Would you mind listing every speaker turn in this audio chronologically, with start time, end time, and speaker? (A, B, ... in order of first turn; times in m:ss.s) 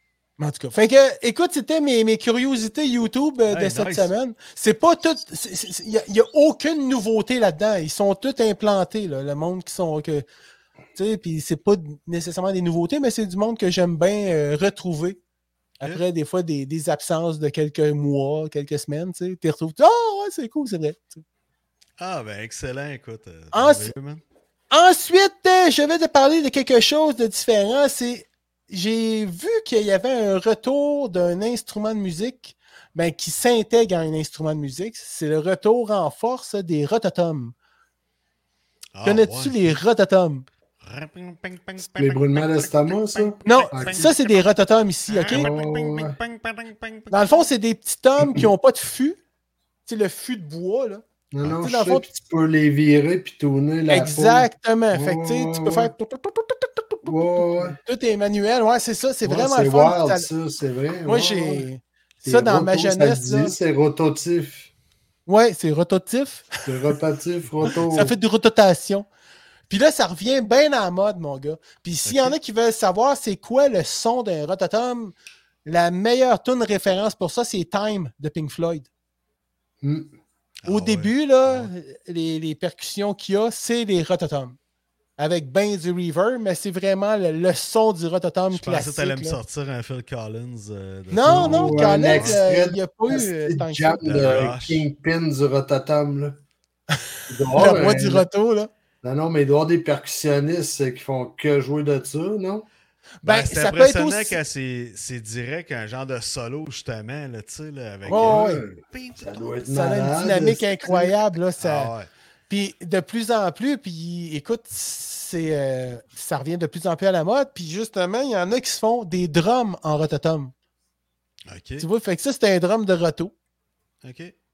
0:00.4-0:10.2 A
0:03.5-0:04.1 B
0:11.0-0:15.2 A
0:15.8-0:21.2 A
0:22.0-0:24.2 B
0:23.5-0:23.9 A
0:24.7-0:37.6 A
0:38.9-0:39.8 B
0:39.0-0:40.4 A
0:40.8-0:44.3 B
0:41.8-0:44.1 C
0:43.4-0:45.5 A
0:45.1-0:47.2 B
0:45.3-0:46.2 C
0:47.1-0:49.2 A
0:48.2-0:48.4 C
0:49.9-0:52.1 A
0:51.3-0:55.9 C
0:53.9-1:00.3 A
0:57.0-0:57.8 C
0:59.2-1:01.7 C
1:01.1-1:03.6 A
1:02.2-1:04.7 C
1:05.3-1:06.6 A
1:06.7-1:08.2 C
1:07.7-1:09.1 A
1:09.7-1:15.1 A
1:12.0-1:12.4 B
1:15.7-1:18.9 A
1:19.8-1:20.1 C
1:20.6-1:21.7 B
1:20.7-1:24.6 A
1:25.2-1:29.4 A
1:28.5-1:32.4 B
1:31.1-1:34.5 A
1:31.2-1:36.4 C
1:34.0-1:34.9 B
1:37.3-1:38.3 C
1:37.5-1:38.7 A
1:39.0-1:42.7 C
1:43.2-1:44.4 A
1:43.2-1:49.4 B
1:48.1-1:48.6 A
1:48.1-1:51.2 C
1:49.7-1:51.9 A
1:51.6-1:52.1 B
1:52.5-2:00.5 A
2:01.5-2:01.9 B
2:01.8-2:03.3 A
2:04.0-2:04.3 B